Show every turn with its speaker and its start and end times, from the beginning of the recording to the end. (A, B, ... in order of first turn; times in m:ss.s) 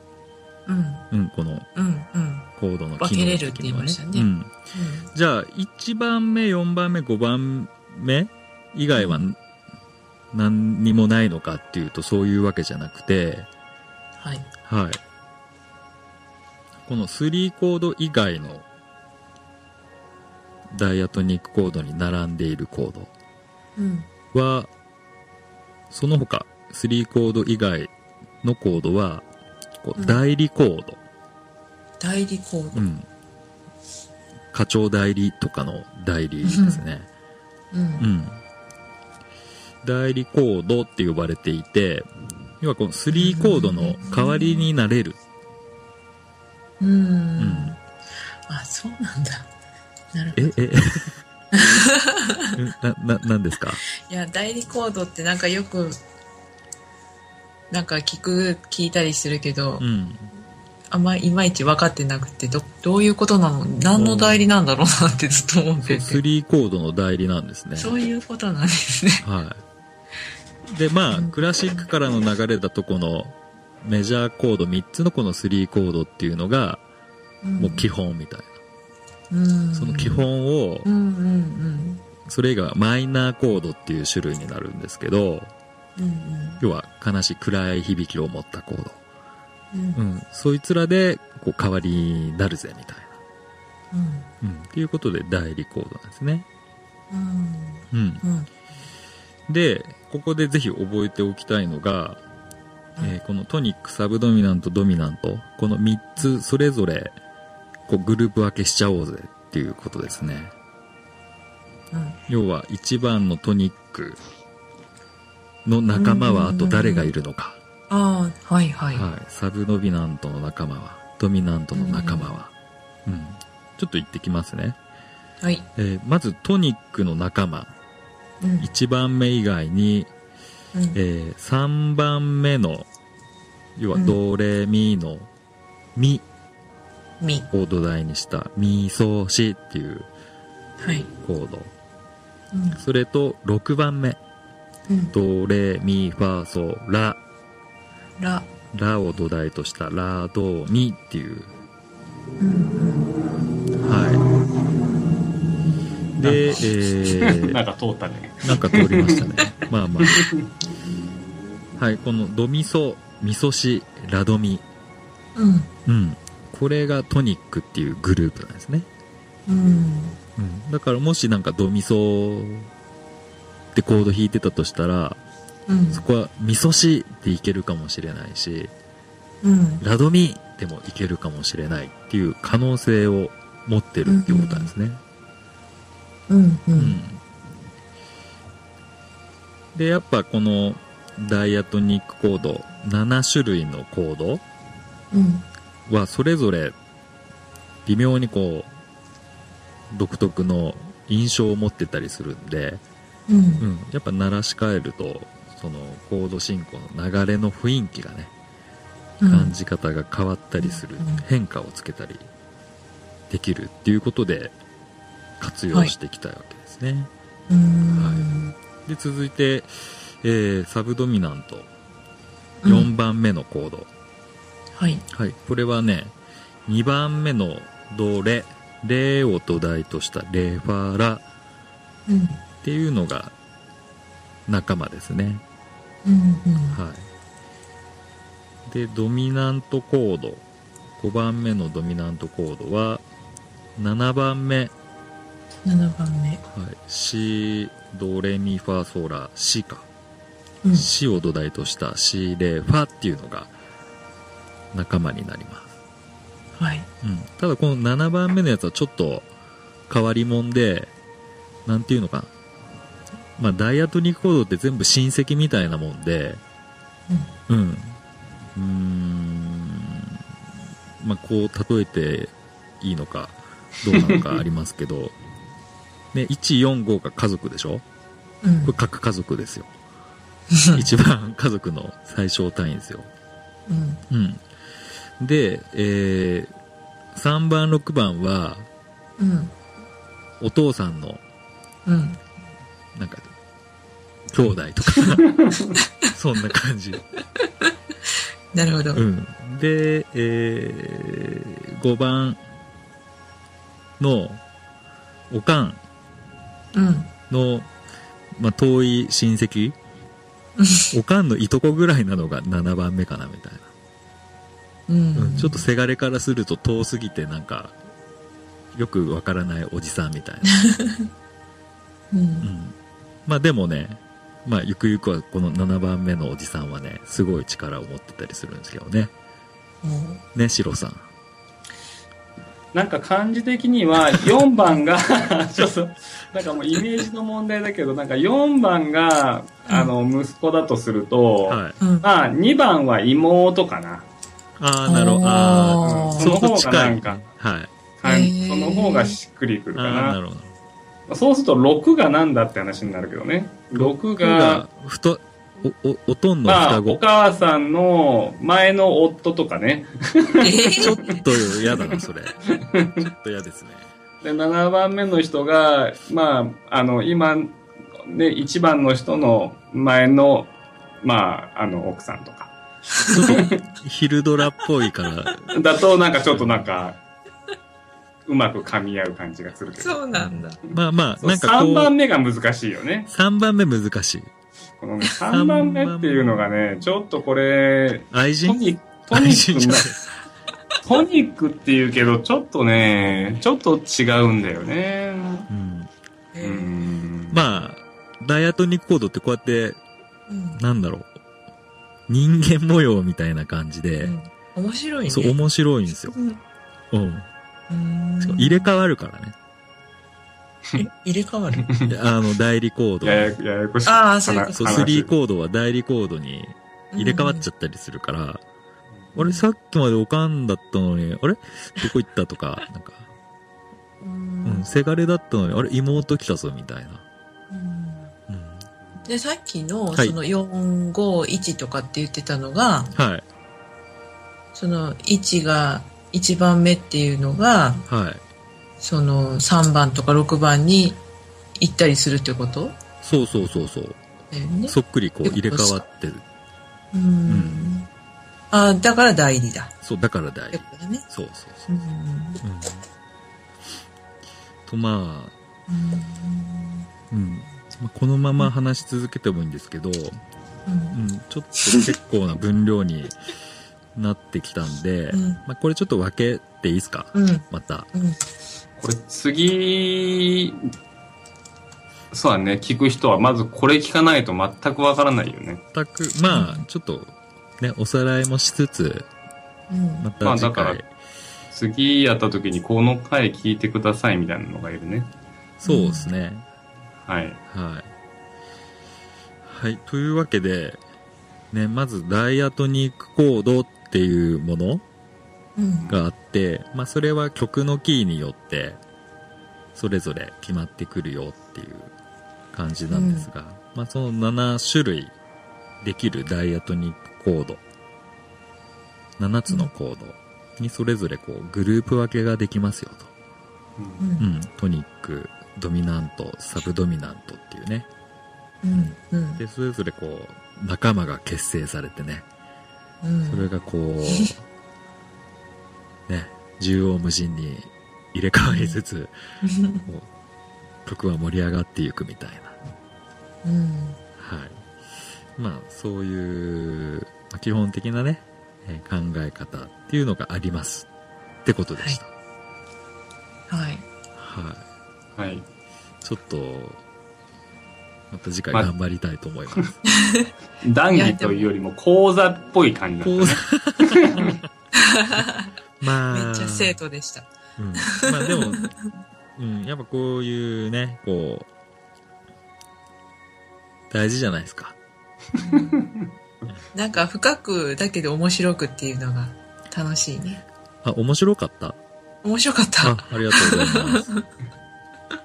0:00.7-0:01.1 A
0:01.1-0:01.7 B
0:01.8-0:05.1 A
0:02.6-0:04.5 B
0:05.1-0:09.4 B
0:09.0-0:09.2 A
0:10.3-0:13.5 B
0:14.2-0:14.5 A
0:14.7-0:15.0 B
0:16.9-0:18.6 B
0:20.7-0:23.1 B
0:23.8-0:24.1 A
0:24.3-0:24.7 B
0:25.9-0:27.9 B
0:28.4-0:29.3 B
0:29.8-0:31.0 B
0:30.0-0:30.2 A
0:32.0-0:32.9 A
0:32.8-0:33.1 B
0:34.5-0:37.1 B
0:36.5-0:36.8 A
0:37.7-0:38.1 A
0:38.0-0:38.4 B
0:39.8-0:42.1 B
0:42.6-0:45.2 B
0:43.1-0:44.7 A
0:46.8-0:47.8 A
0:47.4-0:47.8 B
0:48.5-0:49.5 A
0:50.1-0:50.5 A
0:50.4-0:51.1 B
0:51.5-0:52.6 A
0:52.6-0:53.8 B
0:54.0-0:56.0 A
0:57.7-0:59.9 A
0:59.8-1:00.3 B
1:00.9-1:06.2 A
1:03.9-1:04.4 B
1:05.8-1:08.0 B
1:07.8-1:09.3 A
1:09.2-1:09.6 B
1:10.7-1:16.8 B
1:11.1-1:11.9 A
1:17.4-1:17.9 A
1:17.6-1:18.5 B
1:19.3-1:20.3 A
1:19.7-1:20.9 B
1:20.8-1:22.0 A
1:22.3-1:25.5 B
1:26.0-1:26.6 A
1:26.6-1:29.0 B
1:29.7-1:30.0 A
1:30.0-1:33.2 B
1:33.9-1:34.3 A
1:34.4-1:36.5 B
1:37.1-1:38.5 A
1:37.9-1:38.2 B
1:39.5-1:42.2 B
1:43.0-1:47.2 B
1:47.9-1:50.5 B
1:51.9-1:52.2 A
1:52.3-1:54.2 B
1:55.6-1:57.6 B
1:56.0-1:57.1 A
1:57.9-1:59.0 A
1:58.9-2:02.5 B
2:01.7-2:02.4 A
2:03.1-2:04.8 B
2:05.8-2:07.7 B
2:08.4-2:08.7 A
2:08.6-2:10.1 B
2:10.7-2:11.0 A
2:10.9-2:12.9 B
2:13.8-2:15.3 B
2:16.0-2:16.2 B
2:17.2-2:17.5 A
2:17.5-2:20.1 B
2:20.8-2:21.1 A
2:21.2-2:21.7 B
2:22.5-2:22.8 A
2:22.8-2:24.2 B
2:24.9-2:25.2 A
2:25.1-2:27.2 B
2:28.2-2:28.5 A
2:28.7-2:31.5 B
2:32.4-2:33.1 A
2:33.8-2:34.2 B
2:36.2-2:37.6 B
2:36.2-2:40.5 C
2:38.4-2:40.3 B
2:41.8-2:44.6 B
2:45.4-2:45.7 A
2:45.9-2:48.9 B
2:49.5-2:50.2 A
2:50.4-2:52.7 B
2:53.7-2:55.2 B
2:55.7-2:56.0 A
2:55.9-2:58.7 B
2:59.4-2:59.8 A
2:59.8-3:05.0 B
3:04.1-3:04.7 A
3:06.3-3:07.0 A
3:06.8-3:07.2 B
3:09.7-3:14.4 B
3:15.1-3:15.5 A
3:15.9-3:16.8 B
3:17.9-3:18.7 B
3:19.9-3:22.8 B
3:23.3-3:23.7 A
3:23.6-3:28.3 B
3:29.2-3:29.5 A
3:29.2-3:32.3 B
3:30.6-3:31.3 A
3:33.3-3:34.5 B
3:35.4-3:37.1 B
3:37.5-3:38.6 A
3:37.9-3:38.3 B
3:38.8-3:41.7 B
3:42.6-3:42.9 A
3:42.6-3:43.9 B
3:44.8-3:45.0 A
3:45.1-3:46.1 B
3:46.7-3:51.2 B
3:52.1-3:52.4 A
3:52.6-3:53.3 B
3:54.5-3:55.4 B
3:56.0-3:56.8 A
3:56.7-3:57.1 B
3:58.7-4:00.4 B
4:01.0-4:03.0 B
4:03.8-4:04.7 B
4:05.6-4:06.4 A
4:06.5-4:09.9 B
4:10.6-4:10.9 A
4:10.7-4:13.5 B
4:14.7-4:15.7 B
4:16.6-4:16.9 A
4:17.0-4:19.3 B
4:19.9-4:20.9 B
4:21.7-4:22.3 B
4:23.4-4:26.4 B
4:27.5-4:28.0 B
4:28.6-4:30.2 B
4:31.0-4:35.2 B
4:33.9-4:34.2 C
4:36.1-4:37.8 B
4:38.4-4:38.7 A
4:38.6-4:39.7 B
4:40.5-4:40.8 A
4:40.7-4:43.1 B
4:43.7-4:44.0 A
4:44.1-4:44.4 B
4:45.2-4:46.5 B
4:47.2-4:48.7 B
4:49.2-4:49.5 A
4:50.4-4:51.2 B
4:51.9-4:52.2 A
4:53.0-4:53.3 B
4:54.3-4:55.3 B
4:55.4-4:55.7 C
4:56.1-4:57.0 B
4:57.4-4:57.7 A
4:58.5-4:59.0 A
4:58.9-5:02.4 B
5:04.0-5:04.4 B
5:05.3-5:05.8 B
5:06.7-5:07.1 A
5:07.3-5:07.7 B
5:08.4-5:09.8 B
5:10.6-5:10.9 A
5:10.9-5:13.7 B
5:14.9-5:15.6 A
5:15.2-5:17.8 B
5:18.7-5:20.7 B
5:20.5-5:21.1 A
5:22.1-5:22.5 A
5:22.4-5:22.8 B
5:23.3-5:29.1 B
5:29.8-5:30.2 A
5:30.4-5:31.1 B
5:32.7-5:44.1 C
5:41.5-5:41.8 B
5:41.8-5:42.1 A
5:44.6-5:47.7 B
5:44.9-5:46.2 A
5:45.7-5:47.2 C
5:48.0-5:50.2 C
5:48.0-5:49.2 A
5:49.8-5:50.6 B
5:51.1-5:54.7 C
5:53.7-5:57.0 B
5:56.5-6:03.1 C
6:00.4-6:01.0 A
6:00.8-6:03.9 B
6:04.2-6:10.5 C
6:11.0-6:13.6 C
6:13.1-6:13.4 A
6:13.1-6:15.5 B
6:15.5-6:17.0 C
6:16.3-6:16.7 B
6:18.3-6:20.0 C
6:19.8-6:20.6 A
6:20.1-6:22.0 B
6:20.6-6:23.1 C
6:23.1-6:24.3 B
6:24.8-6:29.9 C
6:25.3-6:26.4 B
6:28.1-6:30.0 B
6:30.8-6:35.5 C
6:35.5-6:35.9 B
6:36.3-6:36.7 A
6:36.4-6:37.5 C
6:37.3-6:39.8 B
6:40.3-6:40.6 A
6:40.6-6:41.1 B
6:42.1-6:44.2 B
6:44.0-6:45.4 A
6:45.1-6:46.2 B
6:46.1-6:46.4 A
6:46.9-6:47.3 B
6:47.7-6:48.7 A
6:48.2-6:49.4 B
6:50.8-6:51.7 A
6:51.6-6:51.9 C
6:51.9-6:53.4 B
6:53.0-6:55.1 C
6:53.9-6:54.9 A
6:54.6-6:58.4 B
6:56.9-6:57.5 A
6:59.2-7:03.0 B
6:59.2-6:59.4 A
7:04.0-7:04.7 A
7:04.4-7:07.0 B
7:07.5-7:08.1 A
7:08.3-7:08.6 B
7:09.0-7:12.9 A
7:13.0-7:13.2 B
7:14.5-7:17.9 A
7:17.9-7:18.2 B
7:18.8-7:21.0 A
7:21.6-7:22.8 A
7:23.0-7:24.0 B
7:24.3-7:25.8 A
7:24.7-7:26.2 B
7:26.9-7:27.9 A
7:27.3-7:27.7 B
7:28.5-7:29.7 A
7:29.8-7:31.8 B
7:30.5-7:31.1 A
7:31.7-7:32.4 A
7:32.4-7:32.8 B
7:34.7-7:35.3 B
7:35.7-7:36.9 A
7:37.1-7:40.2 B
7:40.7-7:41.0 A
7:40.9-7:43.2 B
7:44.0-7:47.9 B
7:45.1-7:45.4 A
7:47.1-7:48.2 A
7:48.8-7:50.7 C
7:52.1-7:55.6 C
7:55.7-7:59.1 B
7:56.3-7:56.6 A
7:59.7-8:00.1 A
8:00.0-8:00.9 B
8:00.2-8:00.8 C
8:01.5-8:05.1 C
8:05.6-8:06.5 B
8:05.6-8:06.1 A
8:07.1-8:07.4 C
8:07.5-8:07.9 B
8:09.4-8:10.8 B
8:11.5-8:14.8 B
8:15.6-8:15.9 A
8:15.9-8:18.8 B
8:19.8-8:21.9 B
8:22.5-8:25.1 B
8:22.9-8:23.3 A
8:25.8-8:27.6 B
8:29.2-8:33.1 B
8:33.8-8:34.0 C
8:34.0-8:34.3 A
8:34.2-8:37.9 B
8:38.6-8:39.4 A
8:38.7-8:42.3 B
8:43.0-8:43.5 A
8:43.3-8:44.4 B
8:44.1-8:44.3 A
8:46.1-8:49.1 B
8:48.5-8:48.8 A
8:49.4-8:49.9 A
8:50.8-8:52.6 B
8:53.4-8:54.0 A
8:54.2-8:54.6 B
8:55.4-9:00.9 B
9:01.4-9:02.1 B
9:03.5-9:03.8 A
9:04.2-9:04.6 B
9:05.2-9:05.5 C
9:06.0-9:06.8 B
9:08.1-9:09.8 B
9:10.0-9:10.3 A
9:10.6-9:14.4 C
9:10.9-9:11.5 A
9:13.0-9:14.4 B
9:14.8-9:15.5 A
9:15.8-9:16.8 B
9:16.1-9:17.3 A
9:17.6-9:18.8 B
9:17.8-9:18.8 A
9:19.4-9:21.5 B
9:23.9-9:24.8 B
9:25.4-9:25.9 A
9:25.5-9:26.1 C
9:26.7-9:30.4 A
9:30.8-9:31.8 B
9:32.2-9:34.2 A
9:32.8-9:34.1 B